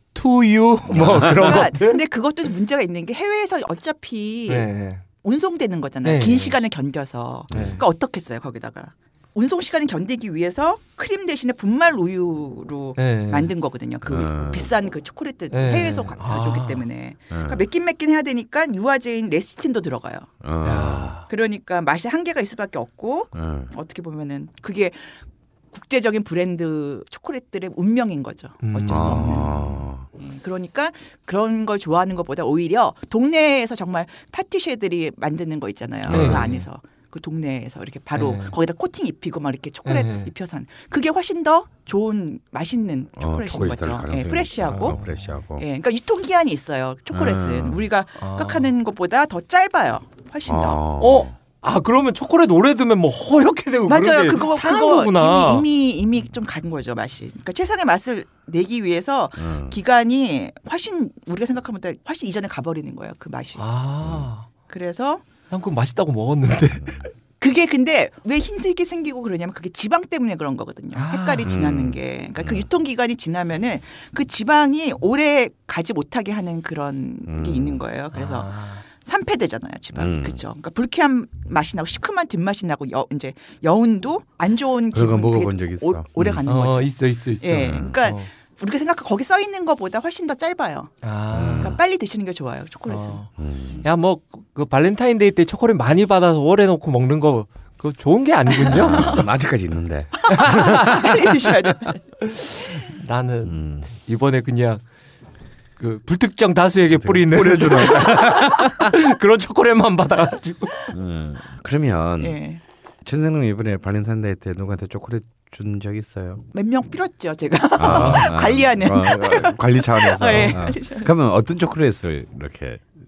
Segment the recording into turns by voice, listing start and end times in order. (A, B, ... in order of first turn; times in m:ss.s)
0:00.1-0:02.0 A
0:00.9-0:01.7 B
0:01.0-0:04.7 C
0:04.5-0:05.0 A
0:05.2-0:20.3 C
0:06.0-0:06.6 A
0:07.5-0:07.8 B
0:07.5-0:07.8 A
0:13.0-0:13.5 A
0:14.0-0:14.7 B
0:15.5-0:16.8 A
0:17.3-0:17.6 B
0:20.4-0:21.1 B
0:20.6-0:21.3 A
0:21.3-0:25.2 C
0:23.3-0:23.7 B
0:25.7-0:29.5 C
0:28.6-0:29.8 A
0:28.9-0:30.1 B
0:30.2-0:45.0 C
0:36.1-0:36.5 B
0:36.1-0:36.7 A
0:38.1-0:38.5 A
0:39.8-0:40.3 A
0:43.2-0:45.6 B
0:44.7-0:45.3 A
0:45.6-0:50.8 C
0:47.1-0:47.9 B
0:48.2-0:48.7 A
0:50.5-0:51.4 B
0:51.0-0:55.6 A
0:53.9-1:03.6 C
0:59.4-0:59.8 B
1:03.6-1:04.5 A
1:04.0-1:04.3 B
1:04.7-1:05.2 C
1:05.5-1:07.1 A
1:06.7-1:07.0 B
1:07.4-1:31.0 C
1:10.9-1:11.5 A
1:11.4-1:12.6 B
1:17.3-1:17.8 B
1:18.1-1:18.8 A
1:19.9-1:20.4 B
1:24.9-1:26.4 B
1:26.4-1:28.3 A
1:27.5-1:27.9 B
1:31.0-1:31.8 A
1:31.3-1:31.8 B
1:31.6-1:33.2 C
1:32.9-1:33.3 A
1:33.4-1:33.8 B
1:33.8-1:39.2 A
1:38.6-1:39.2 C
1:38.8-1:40.7 B
1:40.3-1:41.3 A
1:40.3-1:42.0 C
1:42.2-1:44.8 A
1:43.4-1:43.9 B
1:45.8-1:50.9 A
1:46.9-1:48.9 B
1:50.9-1:52.4 B
1:52.2-1:52.6 C
1:53.0-1:56.4 B
1:56.5-2:01.1 C
1:57.8-2:02.8 B
1:57.8-1:58.3 A